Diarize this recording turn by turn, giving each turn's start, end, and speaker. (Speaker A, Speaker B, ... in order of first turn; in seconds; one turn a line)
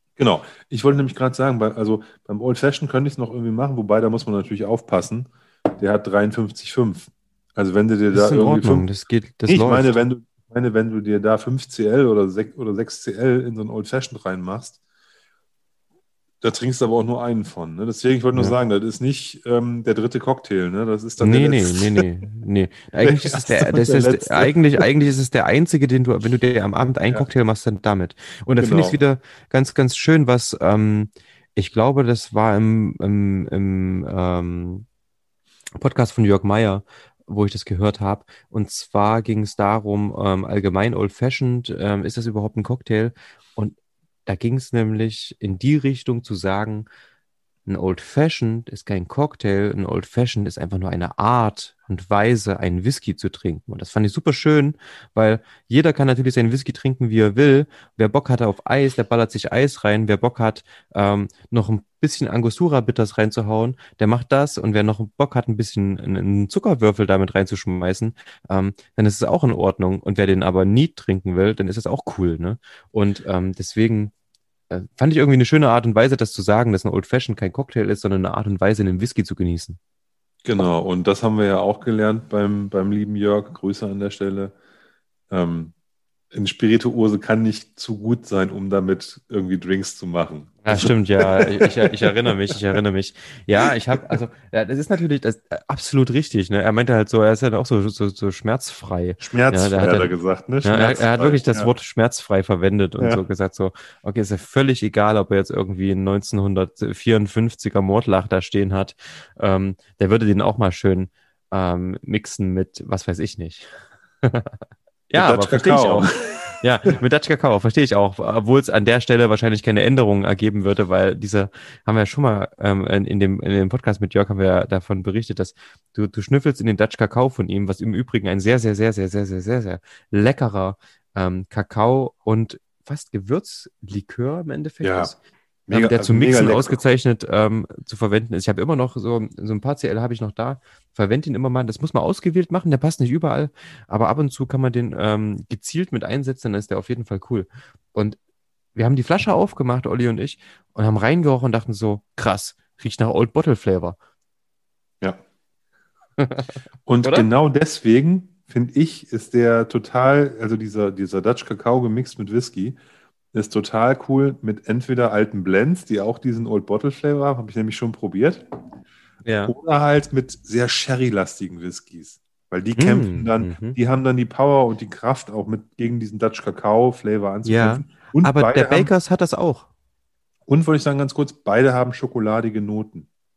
Speaker A: 0.2-8.8
Speaker B: 8.1-9.9
Speaker A: 9.4-14.8
Speaker A: 16.4-22.0
Speaker B: 21.2-34.9
Speaker A: 23.0-24.8
Speaker A: 28.6-29.0
Speaker B: 35.8-46.9
Speaker B: 47.7-74.1
Speaker B: 74.7-79.8
Speaker A: 80.4-84.5
Speaker A: 85.3-85.7
Speaker A: 86.3-92.5
Speaker B: 90.6-113.7
Speaker A: 93.6-94.2
Speaker A: 99.2-101.7
Speaker B: 114.2-135.2
Speaker A: 115.1-116.9
Speaker A: 134.8-135.1
Speaker A: 135.7-136.8
Speaker B: 135.7-148.2
Speaker B: 148.7-154.0
Speaker B: 156.2-156.5
Speaker A: 156.8-162.8
Speaker A: 163.3-168.4
Speaker B: 169.2-169.5
Speaker A: 169.4-178.9
Speaker B: 172.8-173.8
Speaker B: 177.4-179.7
Speaker A: 180.5-183.1